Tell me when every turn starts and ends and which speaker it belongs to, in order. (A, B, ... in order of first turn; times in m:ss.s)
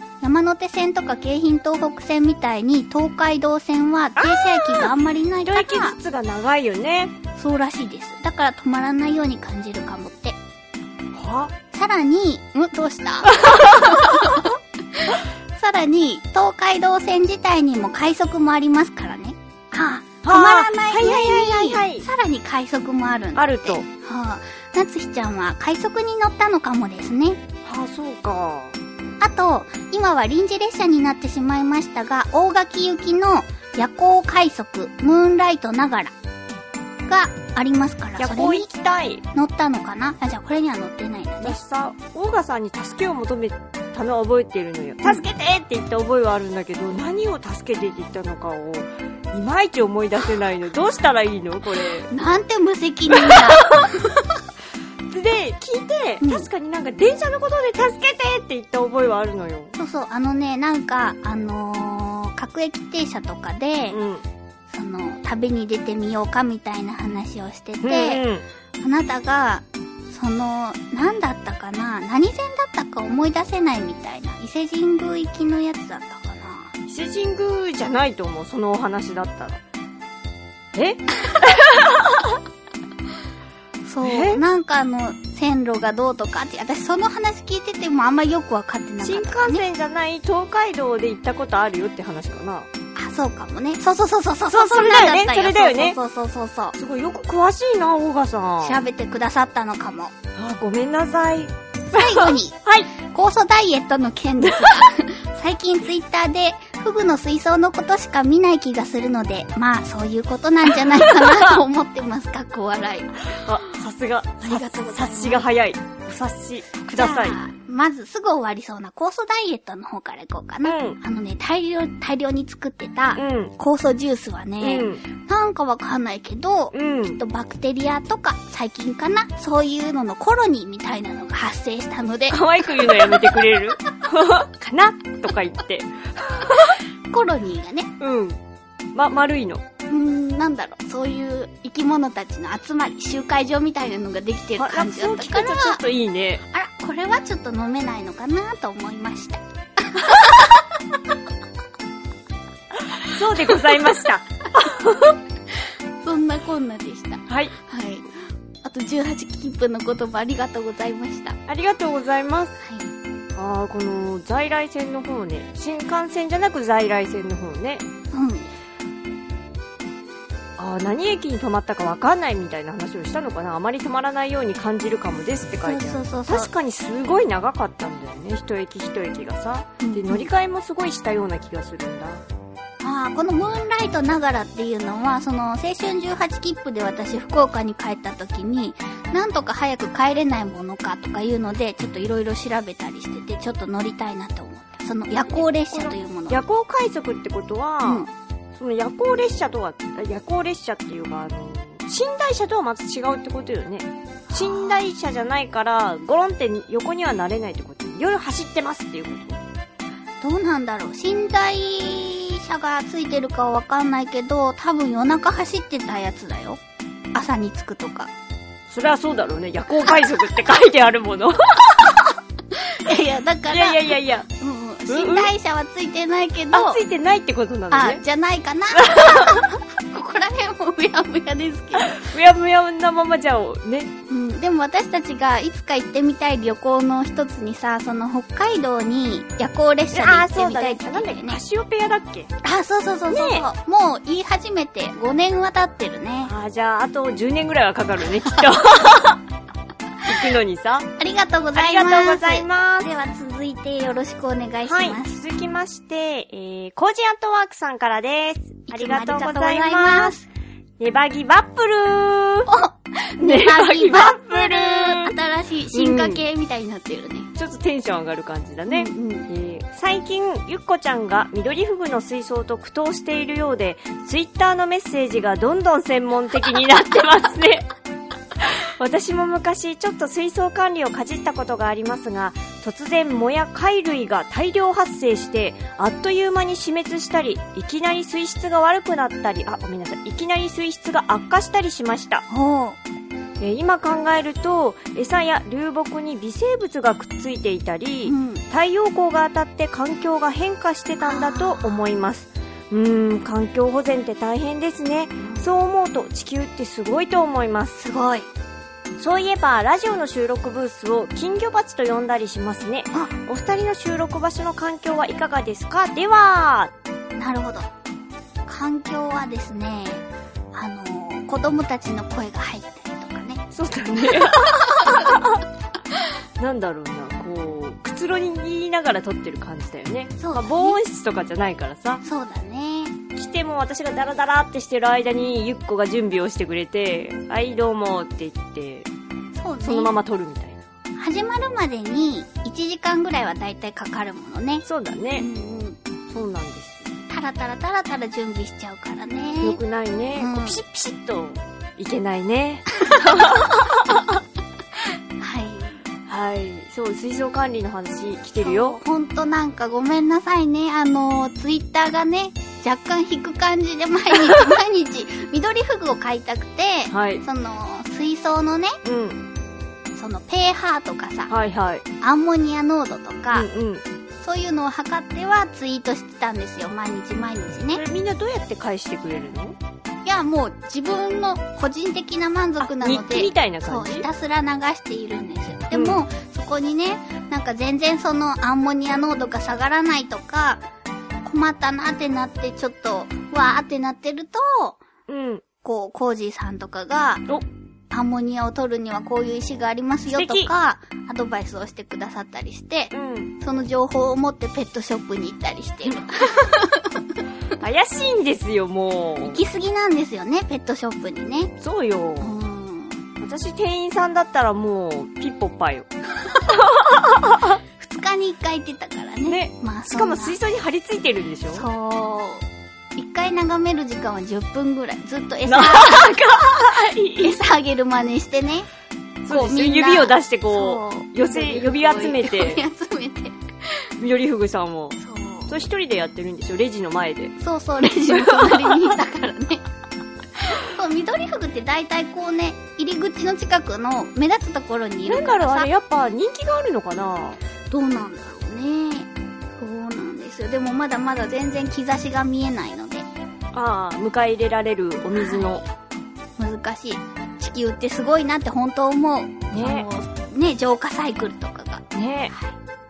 0:00.2-0:06.0 A
0:04.2-0:04.9 B
0:05.5-0:07.1 B
0:07.4-0:10.4 A
0:11.1-0:11.5 B
0:11.7-0:27.4 A
0:13.4-0:14.0 B
0:20.2-0:22.1 B
0:23.4-0:23.8 B
0:27.6-0:28.8 B
0:29.2-0:36.1 A
0:37.1-0:38.7 A
0:38.2-0:39.2 B
0:39.3-0:41.6 A
0:41.4-0:52.1 B
0:52.1-0:54.3 A
0:53.3-0:53.6 B
0:55.1-0:59.7 B
0:56.2-0:56.5 A
0:59.8-1:04.0 A
1:03.9-1:04.2 B
1:04.7-1:08.2 A
1:07.8-1:08.4 B
1:08.8-1:16.7 A
1:16.9-1:19.6 B
1:20.8-1:22.4 B
1:23.8-1:29.6 A
1:24.0-1:24.4 B
1:29.0-1:32.7 B
1:33.0-1:36.8 A
1:34.5-1:36.0 B
1:36.8-1:38.8 B
1:38.6-1:40.1 A
1:40.4-1:42.9 B
1:41.9-1:53.8 A
1:44.4-1:44.8 B
1:50.8-1:51.6 B
1:53.2-1:57.4 B
1:54.4-1:55.5 A
1:56.9-2:13.4 A
2:00.6-2:01.0 B
2:03.2-2:03.5 B
2:04.6-2:05.0 B
2:06.7-2:07.2 B
2:12.3-2:16.7 B
2:16.6-2:17.9 A
2:18.0-2:18.4 B
2:18.9-2:19.6 B
2:19.9-2:25.8 A
2:24.6-2:26.4 B
2:26.5-2:30.7 A
2:33.0-2:35.1 B
2:36.0-2:38.1 A
2:37.3-2:37.5 B
2:38.6-2:41.4 A
2:41.5-2:42.6 B
2:42.6-2:42.9 A
2:43.4-2:47.8 B
2:48.1-2:48.5 A
2:50.6-3:02.2 B
2:55.6-2:56.5 A
2:59.8-3:00.3 A
3:02.8-3:16.4 A
3:15.3-3:29.4 B
3:17.8-3:18.1 A
3:24.3-3:24.8 A
3:30.2-3:36.6 A
3:37.1-3:38.1 A
3:38.7-3:42.0 B
3:42.5-3:46.8 A
3:43.5-3:44.3 B
3:44.9-3:45.3 B
3:46.5-3:48.0 B
3:47.7-3:52.1 A
3:48.7-3:49.4 B
3:51.8-3:53.9 B
3:54.1-4:01.4 A
3:59.9-4:02.3 B
4:02.4-4:06.3 A
4:03.1-4:03.4 B
4:06.2-4:09.2 B
4:10.0-4:10.9 B
4:11.0-4:15.2 A
4:11.6-4:12.9 B
4:14.6-4:20.2 B
4:18.7-4:20.3 A
4:20.8-4:22.5 B
4:22.5-4:27.3 A
4:23.2-4:25.2 B
4:25.7-4:26.2 B
4:27.4-4:37.7 B
4:28.7-4:29.3 A
4:38.4-4:52.2 B
4:52.3-4:52.8 A
4:53.4-5:07.8 B
4:58.0-4:58.4 A
5:01.0-5:01.8 A
5:05.2-5:05.5 A
5:07.8-5:08.3 A
5:09.0-5:16.7 B
5:17.2-5:17.7 A
5:18.5-5:23.4 A
5:23.5-5:25.4 B
5:24.0-5:25.2 A
5:26.4-5:32.0 B
5:30.2-5:30.8 A
5:32.0-5:32.9 A
5:33.2-5:38.9 B
5:39.3-5:40.0 A
5:39.6-5:40.6 B
5:41.0-5:44.6 A
5:44.6-5:45.3 B
5:45.2-5:45.8 A
5:46.1-5:46.9 B
5:47.1-5:49.6 A
5:49.4-5:54.0 B
5:50.2-5:50.6 A
5:52.8-5:53.4 A
5:55.2-5:55.8 A
5:56.1-5:58.8 B
5:58.4-6:08.8 A
6:06.9-6:07.2 B
6:08.8-6:09.2 B
6:09.9-6:11.3 A
6:11.3-6:11.8 B
6:12.0-6:13.5 A
6:13.3-6:13.8 B
6:14.2-6:17.8 A
6:17.7-6:19.6 B
6:20.0-6:30.6 A
6:22.6-6:24.1 B
6:25.7-6:26.0 B
6:31.2-6:34.8 A
6:35.1-6:35.4 B
6:35.6-6:37.2 A
6:37.9-6:47.0 A
6:40.1-6:40.5 B
6:42.9-6:43.3 B
6:47.6-6:49.4 B
6:49.2-6:51.5 A
6:51.6-6:52.4 B
6:52.2-6:53.0 A
6:53.2-6:55.9 B
6:56.5-6:57.6 B
6:57.8-7:00.4 A
6:59.3-7:01.7 B
7:01.5-7:08.7 A
7:05.5-7:07.3 B
7:09.2-7:12.6 B
7:09.3-7:13.9 A
7:14.0-7:15.0 B
7:15.0-7:15.6 A
7:15.5-7:17.3 B
7:17.4-7:19.6 A
7:18.2-7:18.8 B
7:20.4-7:25.7 A
7:25.0-7:27.4 B
7:27.7-7:33.1 A
7:33.5-7:35.6 B
7:35.1-7:35.7 A
7:36.4-7:42.6 A
7:39.5-7:39.9 B
7:41.9-7:42.3 B